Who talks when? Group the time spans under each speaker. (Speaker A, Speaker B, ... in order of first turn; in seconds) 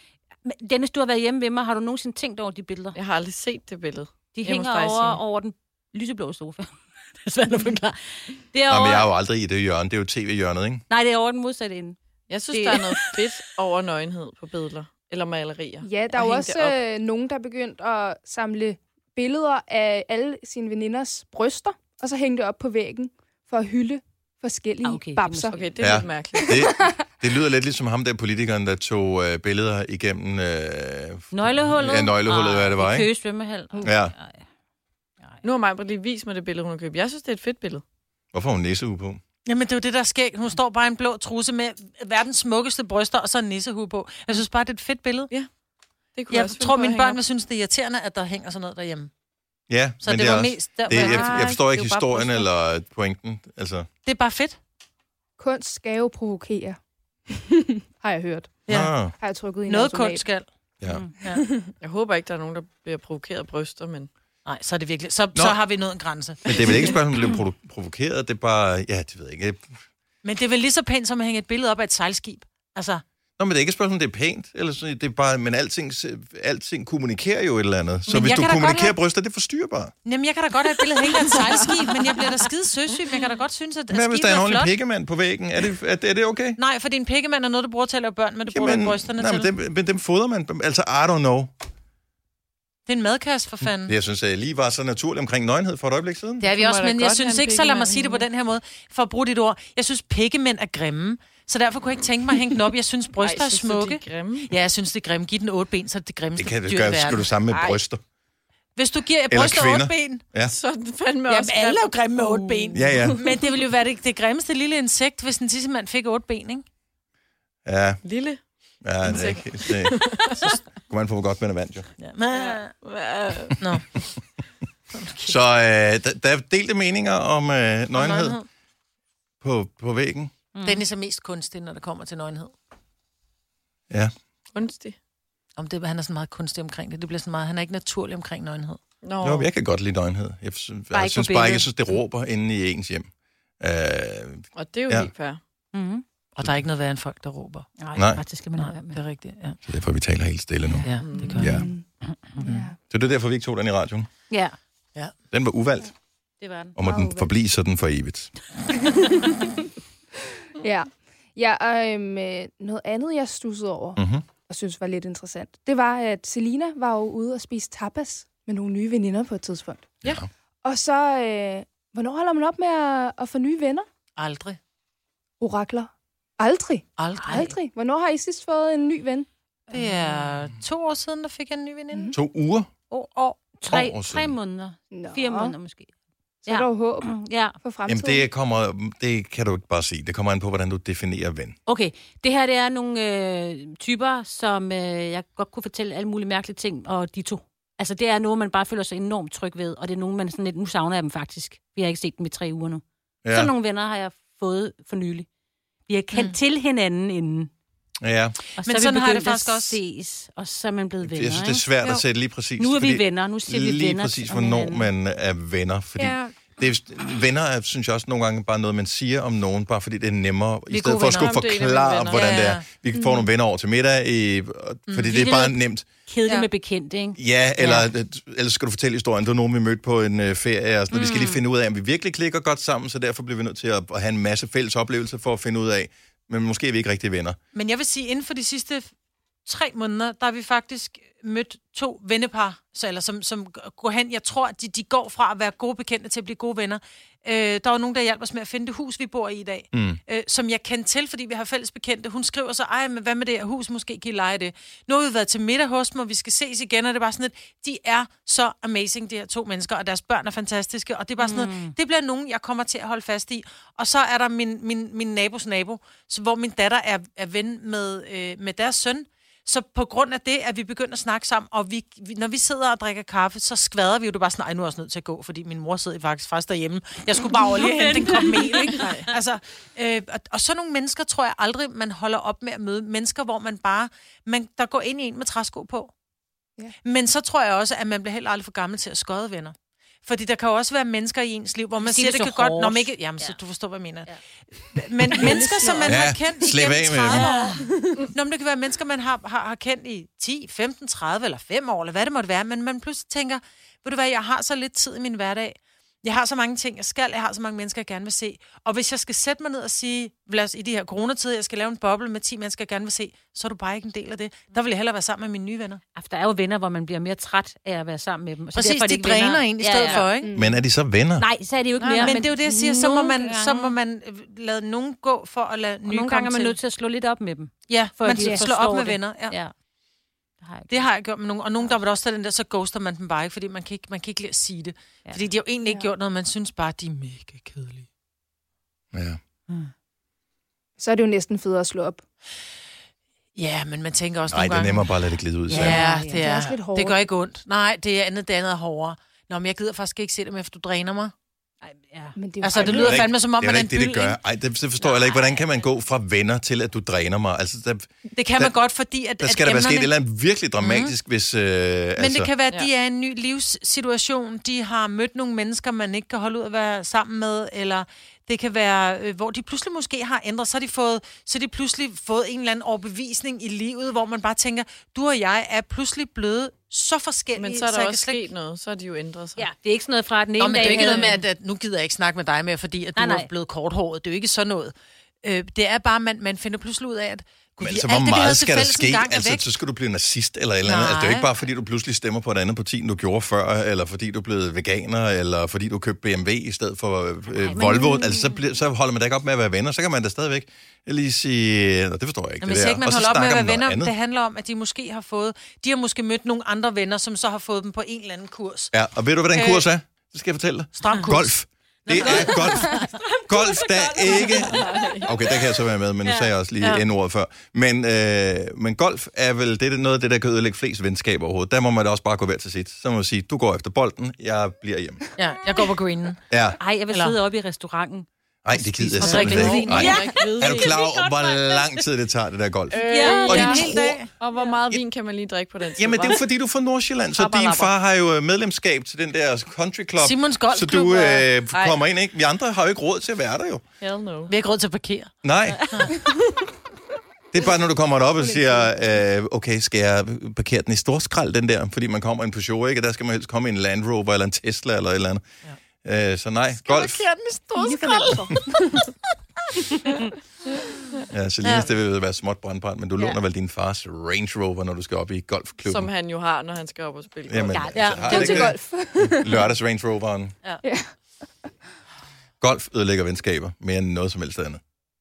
Speaker A: 0.4-3.0, 4.2-9.1, 10.9-12.0, 12.5-13.3, 24.8-26.0, 31.3-34.4, 51.1-52.5, 60.9-61.2, 130.5-130.8, 140.9-142.0, 145.7-146.0, 147.8-149.0, 151.3-152.5, 154.3-154.6, 156.4-156.8, 177.2-177.6, 179.7-180.3, 183.5-185.9, 186.4-187.6, 191.7-205.3, 205.9-207.5, 208.5-211.7, 212.6-214.9, 225.1-227.8, 230.9-231.4, 261.2-261.7, 277.4-279.0, 291.8-293.4, 295.1-295.4, 297.1-297.7, 315.9-320.1, 321.2-323.7, 325.9-329.5, 330.4-330.9, 345.5-346.2, 351.6-352.2, 354.9-355.4, 379.4-381.3, 382.9-383.3, 397.3-398.4, 411.9-414.7, 416.0-416.3, 426.6-431.8, 432.8-433.7, 467.5-468.5
Speaker B: 2.9-5.2, 12.3-16.8, 25.5-26.6, 35.4-37.8, 46.1-47.2, 50.9-51.6, 61.8-64.1, 96.5-98.2, 103.2-104.5, 110.4-113.2, 118.0-118.4, 119.0-120.3, 122.5-123.6, 134.5-134.9, 139.0-139.5, 144.5-145.4, 150.9-151.4, 221.1-222.4, 278.7-279.1, 321.8-322.2, 377.3-379.5, 414.1-415.1, 429.2-430.2, 432.7-436.2, 437.1-437.8, 441.5-441.8, 443.8-444.3, 465.6-468.0
Speaker C: 8.7-10.8, 25.8-33.1, 33.8-34.1, 38.3-39.2, 49.7-53.9, 58.7-59.1, 66.4-69.8, 73.4-79.9, 83.9-86.6, 88.5-91.5, 93.8-96.5, 106.3-108.0, 109.3-110.5, 112.7-113.2, 117.7-118.0, 118.8-120.3, 120.9-121.9, 125.2-128.4, 129.4-130.3, 139.2-143.1, 143.6-145.1, 147.9-148.2, 149.7-150.8, 151.4-151.6, 152.9-154.1, 155.3-155.9, 156.7-158.3, 164.0-164.2, 182.1-182.7, 183.7-184.3, 187.8-191.6, 203.2-203.5, 208.0-208.3, 211.0-225.8, 227.2-237.4, 249.7-250.0, 295.8-297.3, 320.3-321.3, 338.9-339.2, 344.3-345.9, 352.6-358.5, 359.2-362.3, 387.6-403.9, 408.7-425.0, 426.3-426.6, 428.4-434.0, 435.8-443.6, 445.2-446.0, 447.3-455.2, 455.8-457.1, 461.1-465.9, 467.3-470.3, 472.4-474.6
Speaker D: 15.8-25.8, 26.3-27.1, 55.4-56.8, 57.3-60.3, 151.5-151.8, 152.4-152.8, 156.8-157.3, 160.6-169.8, 170.6-173.8, 175.4-179.3, 184.9-185.6, 186.4-188.3, 222.9-223.3, 295.2-295.9, 320.1-320.6, 335.6-335.9, 340.8-342.0, 346.0-347.0, 352.1-353.1, 448.2-448.6, 457.5-458.8, 468.0-469.5, 470.6-471.5
Speaker E: 39.4-45.3, 46.3-49.1, 50.0-51.4, 54.0-54.6, 58.7-58.9, 59.7-60.5, 64.4-67.0, 70.2-73.0, 78.1-79.0, 80.0-84.7, 86.6-89.5, 92.8-93.9, 96.4-107.8, 108.8-110.2, 111.3-116.6, 120.2-120.6, 122.0-122.7, 123.6-123.8, 124.9-125.4, 127.9-128.5, 130.6-132.5, 135.6-138.8, 146.3-147.7, 148.5-149.6, 150.8-151.6, 152.4-152.7, 174.2-174.6, 177.0-177.4, 179.7-182.1, 182.9-183.4, 208.6-209.8, 216.0-216.3, 220.7-221.3, 222.1-222.7, 224.9-225.2, 237.5-238.9, 239.4-285.9, 286.8-315.8, 318.5-320.3, 322.0-326.6, 327.7-329.4, 330.7-337.9, 343.4-345.0, 345.5-351.1, 352.4-354.2, 358.1-359.9, 360.6-360.9, 362.0-378.3, 380.4-389.5, 390.6-391.3, 402.4-408.7, 409.3-409.7, 410.8-411.3, 411.9-412.7, 425.2-426.2, 426.9-427.2, 429.0-430.5, 432.9-434.1, 440.0-441.3, 444.3-445.1, 456.5-458.3, 461.4-461.7, 467.7-468.3